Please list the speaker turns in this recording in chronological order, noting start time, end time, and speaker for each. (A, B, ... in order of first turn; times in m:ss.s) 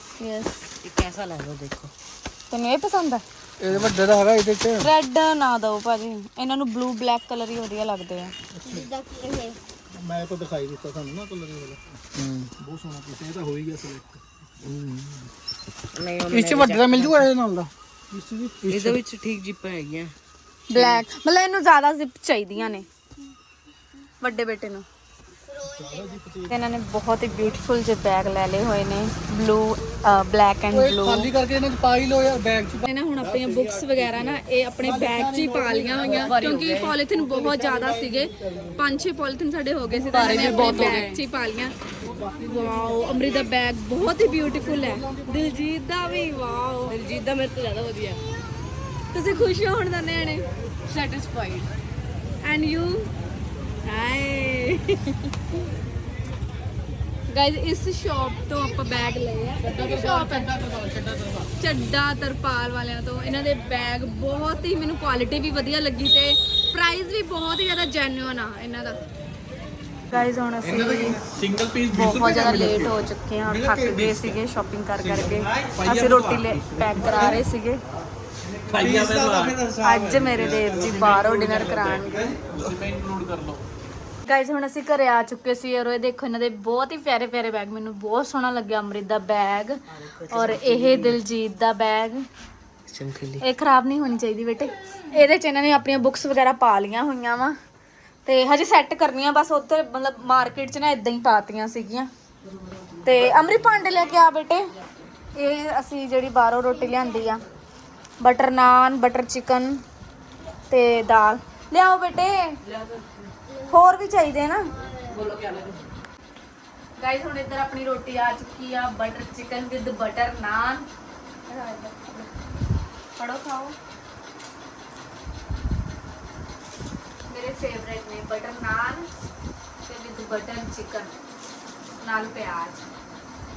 0:00.2-0:00.6 A
0:00.8-0:01.9 B
0:02.5-0:03.2 A
0:03.6-0:04.9 C
0:04.8-0:08.3 A
0:08.6-0:09.6 D
0:09.9-0:15.3 C
0:15.9-0:17.3 B
0:16.3-0:19.0 C
0:18.7-0:20.1 B
0:20.7-0:22.9 A
0:20.7-0:21.0 B
0:24.2-0:24.9 A
0:25.5-0:26.4 D
0:25.9-0:26.5 C
0:26.5-0:31.3 A
0:30.7-0:32.8 C
0:32.8-0:41.7 A
0:34.8-0:36.4 C
0:36.0-0:37.0 B
0:37.2-0:38.7 C
0:40.0-0:41.2 B
0:42.0-0:43.2 C
0:42.4-0:47.0 A
0:44.3-0:45.6 C
0:46.9-0:48.2 B
0:49.1-0:50.5 A
0:50.8-0:51.7 B
0:52.4-0:53.1 A
0:53.8-0:55.2 A
0:57.3-1:00.6 A
0:59.6-1:01.5 C
1:01.6-1:09.0 A
1:10.1-1:11.2 A
1:10.6-1:14.4 C
1:11.9-1:17.8 A
1:15.0-1:17.4 C
1:18.7-1:23.6 C
1:18.8-1:19.5 B
1:19.8-1:22.2 A
1:24.2-1:32.3 A
1:30.0-1:31.2 B
1:32.9-1:33.4 B
1:33.4-1:37.6 A
1:38.3-1:42.1 A
1:43.0-1:44.7 A
1:45.4-1:47.4 A
1:48.2-1:49.8 A
1:50.7-1:52.6 A
1:52.7-1:53.1 B
1:53.5-1:53.8 D
1:53.7-1:54.7 A
1:54.7-1:55.3 D
1:55.1-1:55.8 B
1:57.0-2:00.9 A
2:01.5-2:02.3 A
2:03.2-2:03.8 A
2:07.3-2:09.1 A
2:09.8-2:11.2 A
2:12.0-2:12.8 A